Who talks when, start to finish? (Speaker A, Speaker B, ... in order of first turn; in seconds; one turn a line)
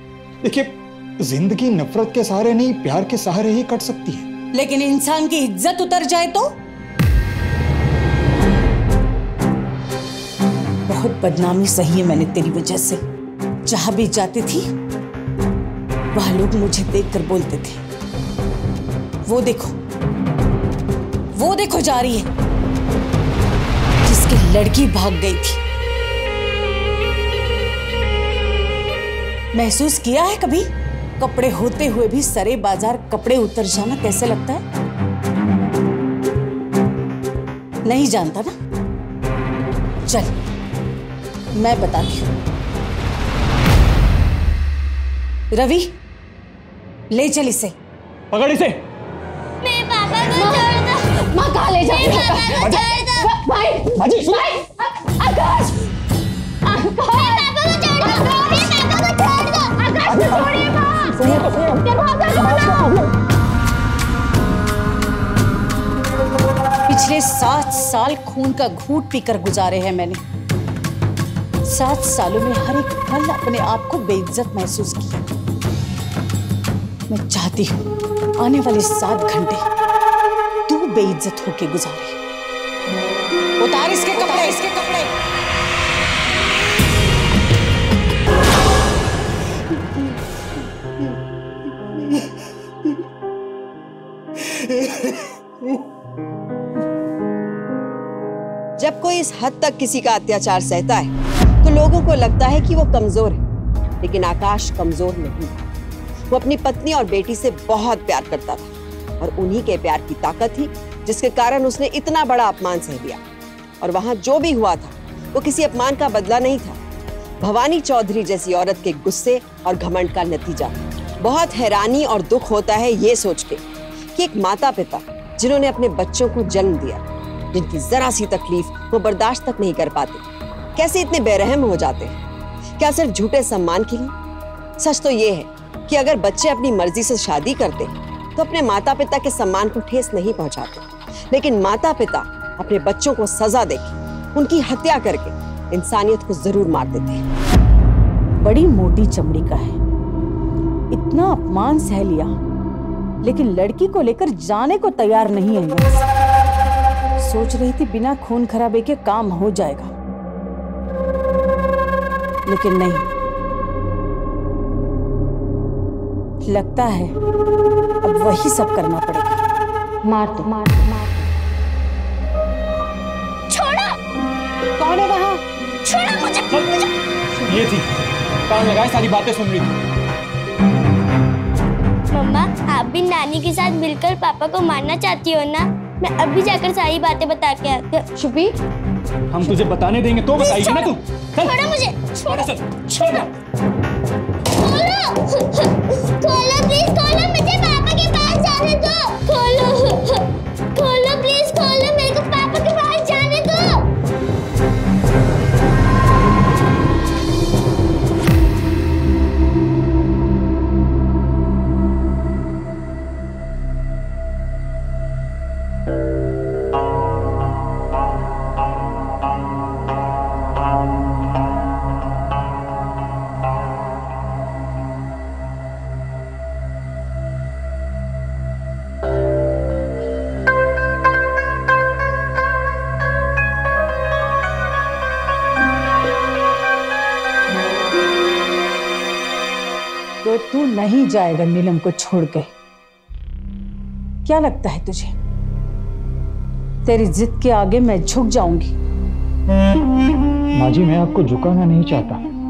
Speaker A: 0.4-4.3
Speaker B: 4.5-6.5
Speaker B: 10.9-13.0
Speaker B: 13.7-14.7
Speaker B: 16.1-17.8
Speaker B: 19.3-19.8
Speaker B: 21.3-22.3
Speaker B: 24.0-25.6
Speaker B: 29.5-30.7
Speaker B: 31.2-34.6
Speaker B: 37.9-38.5
Speaker B: 40.1-40.4
Speaker B: 41.6-42.3
Speaker B: 45.5-45.9
Speaker B: 47.1-47.7
Speaker C: 48.3-48.8
Speaker D: 49.6-51.2
Speaker E: 50.3-55.9
Speaker D: 51.9-53.3
Speaker C: 54.1-54.3
Speaker E: 56.6-57.5
Speaker D: 57.1-59.8
Speaker E: 58.0-58.5
Speaker E: 59.7-63.1
Speaker A: 61.3-61.6
Speaker B: 66.9-70.2
Speaker B: 71.7-75.2
Speaker B: 77.1-77.8
Speaker B: 78.4-79.6
Speaker B: 80.7-82.2
Speaker B: 83.6-85.1
Speaker A: 94.4-95.3
Speaker F: 98.8-101.1
Speaker F: 101.6-103.4
Speaker F: 104.0-105.7
Speaker F: 106.3-108.7
Speaker F: 109.2-113.2
Speaker F: 113.8-116.8
Speaker F: 117.4-127.0
Speaker F: 127.5-130.2
Speaker F: 130.8-132.1
Speaker F: 132.8-134.1
Speaker F: 134.8-147.2
Speaker B: 148.4-149.8
Speaker B: 150.9-152.3
Speaker B: 153.2-156.0
Speaker B: 157.2-159.9
Speaker B: 162.5-163.1
Speaker B: 166.5-167.2
Speaker B: 168.0-169.4
Speaker E: 170.1-171.3
Speaker D: 173.5-173.9
Speaker B: 174.8-175.4
Speaker D: 175.8-176.7
Speaker C: 176.5-176.8
Speaker C: 177.5-177.8
Speaker C: 178.5-179.7
Speaker D: 182.1-188.1
Speaker E: 188.2-188.6
Speaker C: 189.3-191.6
Speaker D: 190.3-193.2
Speaker C: 192.3-193.3
Speaker D: 194.5-203.8
Speaker B: 240.2-242.5
Speaker B: 244.2-245.2
Speaker B: 246.8-248.7
Speaker A: 250.5-252.2